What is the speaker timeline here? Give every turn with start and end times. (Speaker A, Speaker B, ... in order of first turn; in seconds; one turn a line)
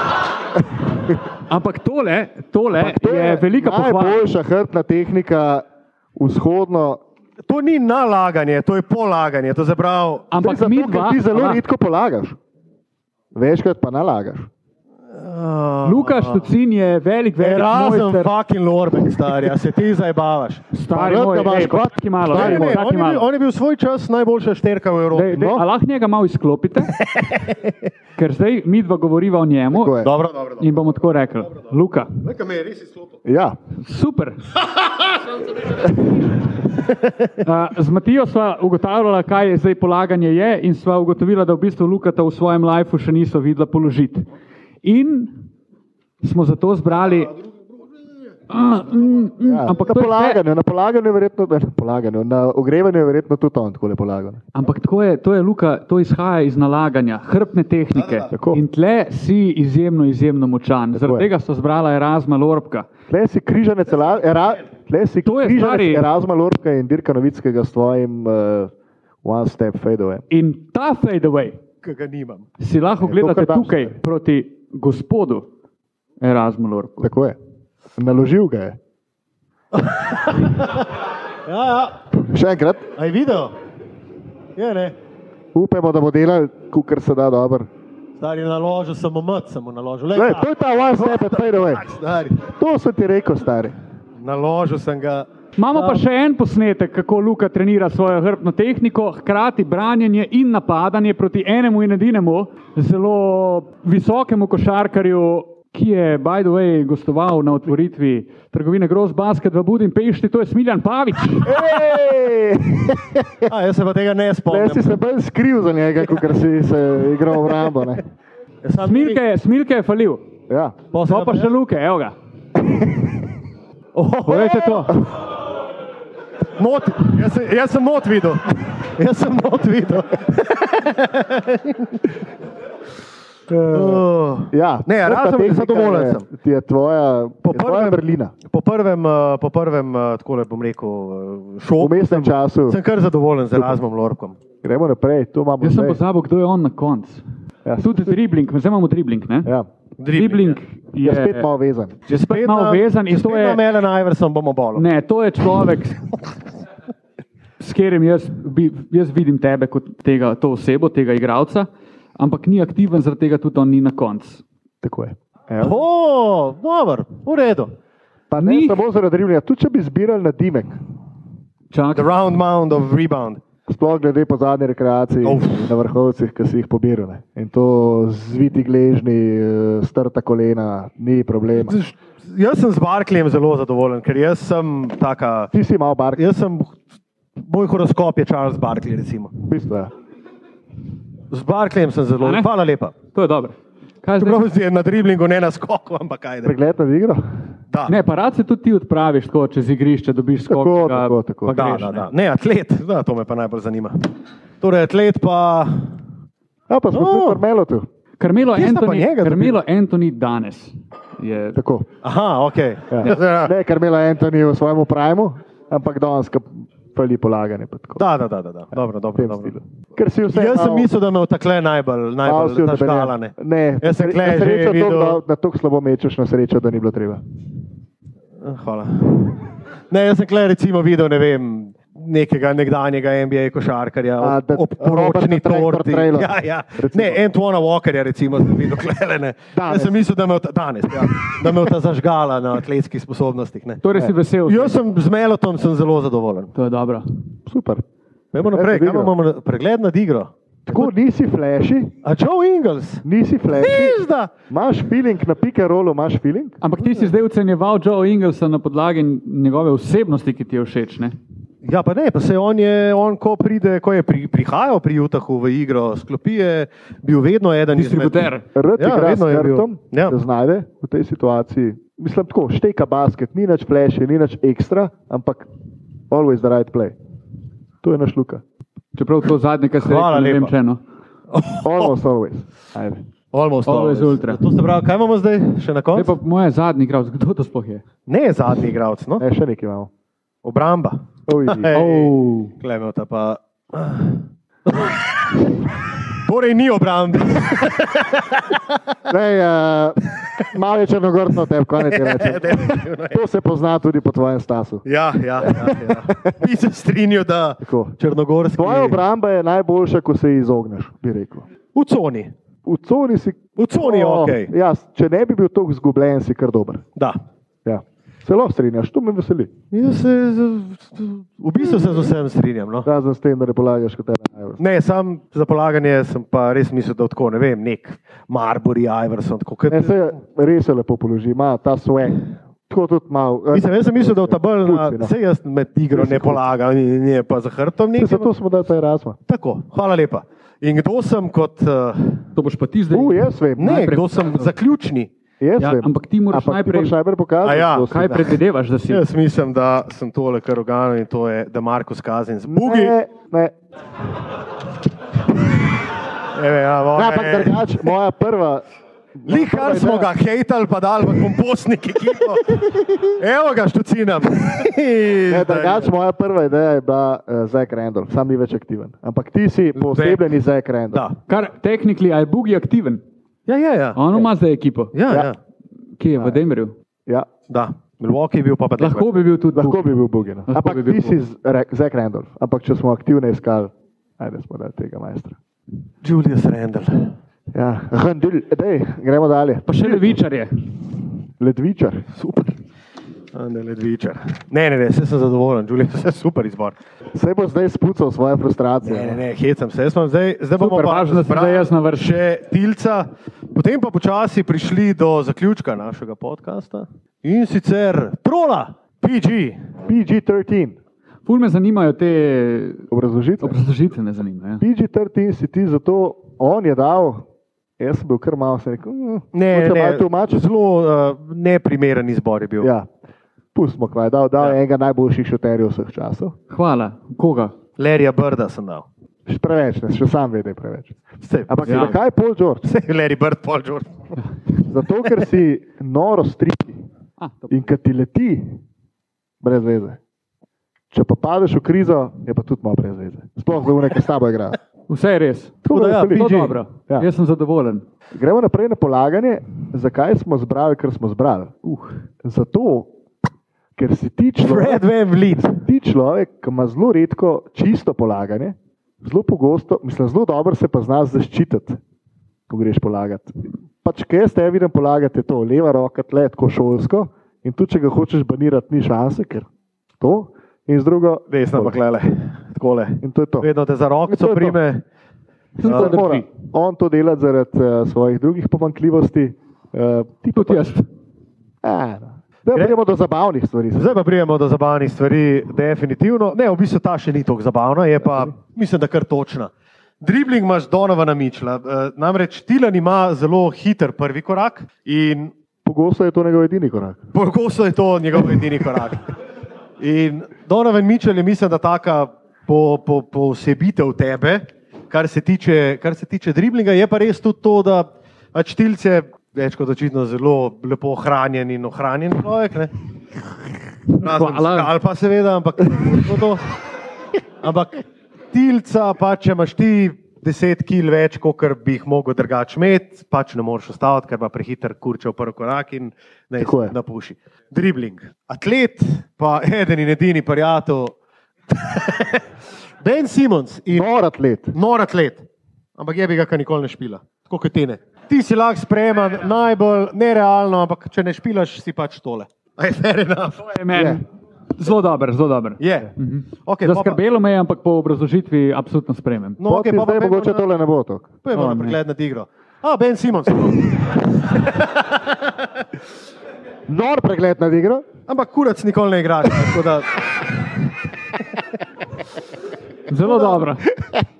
Speaker A: 1.5-4.2
Speaker B: 2.8-5.6
Speaker B: 6.2-7.0
Speaker C: 7.5-10.3
Speaker A: 10.3-11.6
Speaker B: 10.4-12.4
Speaker B: 13.3-14.5
Speaker C: 15.1-16.5
Speaker A: 15.8-18.3
Speaker C: 17.4-20.6
Speaker A: 20.7-23.2
Speaker B: 20.9-22.8
Speaker C: 22.3-25.3
Speaker A: 25.1-26.9
Speaker B: 25.3-25.6
Speaker C: 27.0-27.8
Speaker A: 28.2-29.9
Speaker B: 29.7-30.1
Speaker C: 30.0-30.7
Speaker A: 30.6-32.2
Speaker C: 32.2-33.1
Speaker B: 33.2-33.6
Speaker A: 33.8-34.5
Speaker A: 37.4-44.2
Speaker A: 44.8-45.3
Speaker A: 46.2-47.3
Speaker A: 48.5-50.4
Speaker B: 49.4-54.4
Speaker A: 54.5-62.9
Speaker B: 58.3-58.6
Speaker B: 60.9-61.3
Speaker B: 63.1-68.7
Speaker A: 65.2-66.1
Speaker B: 69.2-70.2
Speaker A: 70.3-71.6
Speaker C: 71.8-72.5
Speaker A: 72.6-75.5
Speaker B: 73.0-74.0
Speaker A: 76.2-77.1
Speaker B: 77.0-77.4
Speaker B: 78.0-78.8
Speaker C: 79.7-82.0
Speaker B: 82.1-82.9
Speaker C: 83.0-83.5
Speaker C: 84.5-85.0
Speaker B: 85.5-87.7
Speaker C: 88.2-92.4
Speaker B: 90.1-93.7
Speaker C: 94.2-96.0
Speaker A: 95.6-111.7
Speaker B: 111.4-113.4
Speaker C: 113.5-115.0
Speaker B: 114.5-118.0
Speaker C: 118.6-119.2
Speaker A: 118.8-120.2
Speaker B: 120.5-120.8
Speaker C: 120.9-121.5
Speaker A: 121.0-122.1
Speaker C: 123.9-124.9
Speaker A: 124.3-124.9
Speaker C: 126.5-132.1
Speaker B: 133.5-138.3
Speaker C: 133.7-136.2
Speaker C: 137.4-144.4
Speaker B: 141.8-142.8
Speaker B: 144.6-146.0
Speaker A: 145.6-147.2
Speaker B: 147.6-148.0
Speaker A: 147.8-149.5
Speaker C: 150.0-150.6
Speaker A: 150.1-151.5
Speaker B: 151.0-152.0
Speaker C: 152.1-154.8
Speaker A: 152.1-153.6
Speaker A: 154.8-156.0
Speaker A: 157.6-164.4
Speaker B: 164.8-165.8
Speaker C: 165.6-167.7
Speaker B: 168.3-170.8
Speaker A: 168.4-168.8
Speaker A: 171.7-172.1
Speaker C: 171.9-173.4
Speaker B: 173.7-181.8
Speaker C: 175.2-175.6
Speaker C: 181.6-185.5
Speaker B: 185.5-186.2
Speaker C: 186.2-186.8
Speaker C: 187.4-189.3
Speaker B: 189.4-189.9
Speaker C: 191.3-192.9
Speaker A: 192.2-192.5
Speaker A: 193.1-194.4
Speaker C: 194.2-196.5
Speaker B: 196.4-197.2
Speaker A: 197.9-202.1
Speaker B: 200.5-201.7
Speaker C: 201.5-204.1
Speaker C: 204.6-206.0
Speaker B: 206.7-207.9
Speaker C: 206.9-207.4
Speaker A: 208.2-211.6
Speaker C: 208.5-209.6
Speaker B: 211.6-211.9
Speaker C: 212.0-213.5
Speaker B: 212.9-218.1
Speaker C: 218.0-219.6
Speaker B: 219.1-220.9
Speaker C: 220.3-225.2
Speaker B: 222.2-227.2
Speaker C: 228.4-243.8
Speaker B: 234.2-237.2
Speaker B: 239.5-239.9
Speaker B: 240.9-241.6
Speaker A: 243.8-244.8
Speaker C: 244.4-246.5
Speaker A: 246.6-247.1
Speaker B: 247.5-247.8
Speaker C: 248.3-250.9
Speaker B: 248.5-249.1
Speaker B: 250.7-251.9
Speaker C: 252.0-254.3
Speaker B: 253.0-256.6
Speaker A: 256.6-261.1
Speaker C: 261.6-270.2
Speaker A: 267.8-268.4
Speaker B: 268.5-275.5
Speaker B: 276.1-276.9
Speaker B: 277.8-278.4
Speaker A: 278.9-280.8
Speaker C: 279.8-280.5
Speaker C: 281.3-281.9
Speaker B: 281.6-283.0
Speaker C: 283.3-286.1
Speaker A: 283.6-284.4
Speaker A: 285.9-287.8
Speaker C: 288.1-289.2
Speaker B: 289.2-289.9
Speaker C: 290.4-295.4
Speaker B: 291.3-291.7
Speaker A: 291.7-292.5
Speaker C: 296.1-298.8
Speaker B: 299.1-304.8
Speaker C: 301.9-303.2
Speaker C: 304.8-309.0
Speaker B: 305.4-306.4
Speaker B: 307.6-308.0
Speaker B: 308.6-311.4
Speaker C: 311.7-312.3
Speaker B: 312.6-316.8
Speaker C: 313.6-314.5
Speaker B: 317.6-319.5
Speaker C: 319.7-322.9
Speaker B: 322.8-324.6
Speaker C: 324.6-330.0
Speaker B: 329.7-335.1
Speaker C: 333.5-338.3
Speaker B: 335.9-336.4
Speaker B: 338.0-339.2
Speaker C: 339.3-342.3
Speaker A: 342.3-344.5
Speaker B: 342.9-343.9
Speaker C: 343.6-345.1
Speaker B: 345.4-348.3
Speaker A: 345.6-346.9
Speaker C: 347.4-348.0
Speaker A: 347.9-349.0
Speaker C: 348.9-352.9
Speaker B: 352.5-353.5
Speaker C: 356.3-357.9
Speaker B: 356.9-358.6
Speaker B: 359.2-360.1
Speaker C: 359.3-365.9
Speaker B: 365.3-371.1
Speaker C: 369.9-370.3
Speaker A: 371.3-373.0
Speaker C: 373.5-374.3
Speaker A: 373.9-374.9
Speaker C: 374.9-375.4
Speaker A: 376.0-376.7
Speaker C: 377.5-379.1
Speaker A: 378.8-379.9
Speaker B: 379.5-385.4
Speaker A: 380.5-381.2
Speaker C: 386.0-387.2
Speaker B: 387.5-390.1
Speaker A: 389.7-390.5
Speaker B: 391.4-392.1
Speaker C: 392.1-392.6
Speaker C: 393.3-396.8
Speaker B: 397.1-399.2
Speaker C: 398.8-409.7
Speaker A: 400.6-402.2
Speaker B: 409.9-410.8
Speaker A: 411.2-412.9
Speaker B: 412.9-413.6
Speaker A: 413.4-414.6
Speaker B: 414.6-417.2
Speaker B: 417.8-420.4
Speaker C: 419.3-422.7
Speaker B: 422.6-422.9
Speaker B: 423.5-426.4
Speaker A: 426.5-427.5
Speaker C: 427.8-428.9
Speaker B: 429.3-431.0
Speaker C: 431.2-432.0
Speaker B: 431.5-432.7
Speaker A: 431.7-431.9
Speaker C: 432.6-433.9
Speaker B: 434.6-436.8
Speaker B: 437.5-438.6
Speaker B: 439.4-440.0
Speaker B: 440.9-444.6
Speaker A: 444.9-447.8
Speaker C: 445.6-446.6
Speaker B: 445.7-447.1
Speaker B: 448.1-451.5
Speaker B: 452.2-452.9
Speaker B: 453.8-454.9
Speaker C: 454.4-455.6
Speaker B: 455.4-461.8
Speaker B: 462.5-469.5
Speaker B: 470.0-471.8
Speaker C: 471.3-474.8
Speaker B: 473.0-473.5
Speaker B: 474.1-474.6
Speaker A: 475.6-476.3
Speaker B: 475.6-480.7
Speaker C: 475.6-476.0
Speaker A: 480.4-480.9
Speaker B: 481.6-483.9
Speaker C: 483.8-495.3
Speaker B: 495.6-497.0
Speaker C: 497.1-499.0
Speaker C: 499.8-512.7
Speaker A: 513.9-514.7
Speaker C: 513.9-516.4
Speaker C: 517.4-530.9
Speaker B: 526.4-526.7
Speaker C: 531.5-532.3
Speaker C: 532.8-533.9
Speaker B: 533.7-534.5
Speaker C: 534.5-535.2
Speaker C: 535.8-543.4
Speaker A: 543.4-544.0
Speaker B: 543.7-544.0
Speaker A: 544.6-549.4
Speaker C: 545.6-545.9
Speaker C: 546.5-547.0
Speaker C: 549.4-550.5
Speaker B: 549.4-551.2
Speaker C: 551.2-555.6
Speaker A: 551.3-551.7
Speaker B: 556.7-557.9
Speaker C: 558.1-560.0
Speaker A: 562.9-563.6